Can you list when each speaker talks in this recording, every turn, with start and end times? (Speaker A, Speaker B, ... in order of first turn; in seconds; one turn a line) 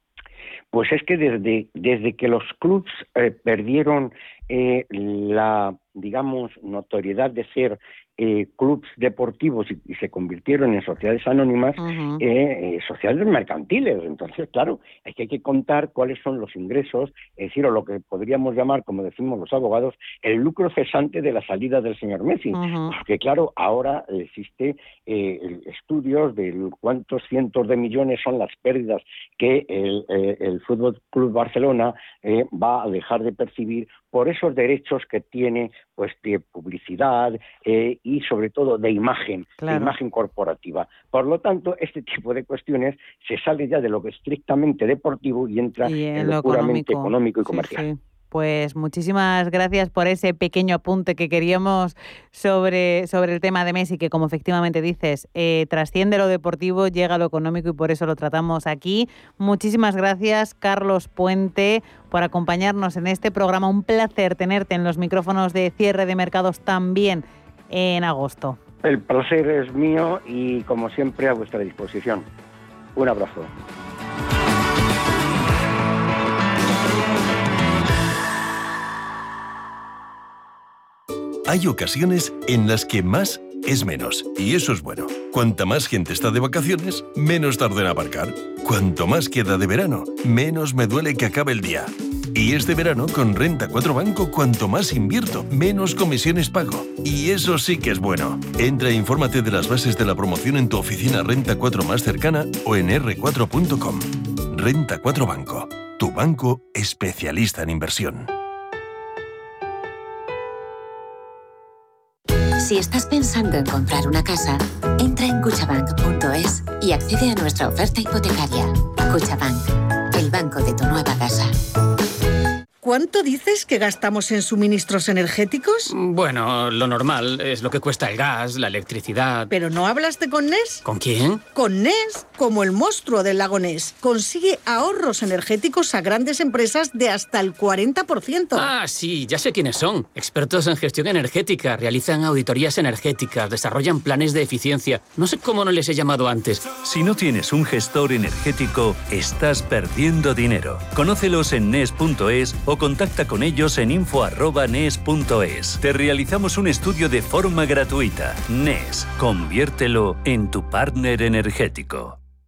Speaker A: 0.7-47.9
Speaker B: 11.8-12.2
Speaker B: 22.5-22.9
Speaker B: 39.6-39.9
Speaker B: 45.8-68.6
Speaker A: 68.8-72.3
Speaker A: 72.9-73.5
Speaker C: 81.5-108.3
Speaker D: 112.6-121.5
Speaker E: 122.8-125.9
Speaker F: 125.9-129.5
Speaker E: 129.5-130.8
Speaker F: 130.8-131.4
Speaker E: 131.5-138.7
Speaker F: 138.5-146.7
Speaker G: 146.8-162.2